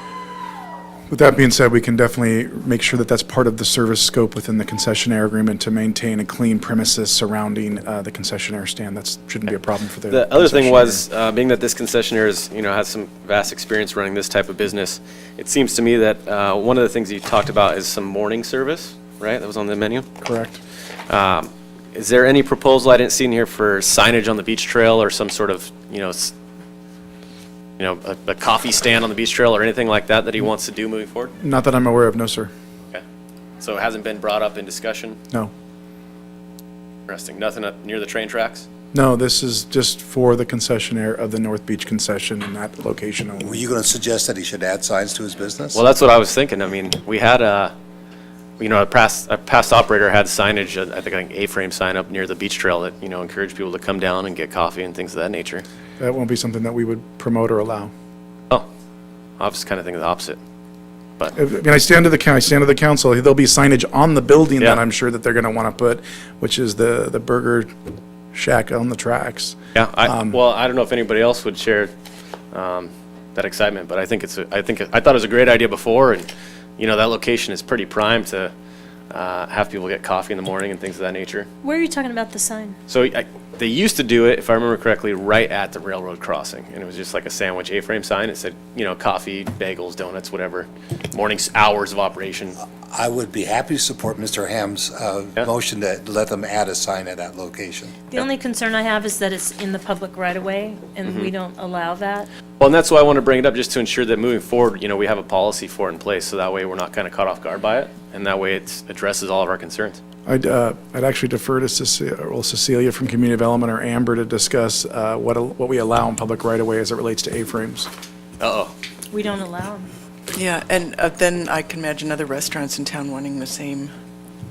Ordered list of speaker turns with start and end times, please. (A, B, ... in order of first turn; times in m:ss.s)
0:01.1-0:11.0 A
0:10.1-0:20.1 B
0:20.2-0:20.6 A
0:21.1-0:26.3 B
0:27.8-0:31.3 B
0:31.4-0:32.5 A
0:33.6-0:35.2 B
0:37.1-0:38.6 B
0:38.9-0:43.6 A
0:43.4-0:45.8 C
0:45.7-0:47.7 B
0:48.6-0:55.6 B
0:56.0-0:57.9 A
0:59.4-1:00.4 B
1:01.3-1:07.7 A
1:08.3-1:10.4 A
1:09.7-1:11.9 B
1:12.5-1:18.5 B
1:19.1-1:21.5 B
1:21.6-1:22.8 D
1:22.9-1:32.6 B
1:32.9-1:37.9 C
1:38.1-1:42.3 D
1:41.0-1:41.3 B
1:42.6-1:50.0 B
1:50.2-1:57.9 A
1:58.4-1:58.7 B
1:59.1-1:59.9 D
2:00.3-2:03.9 E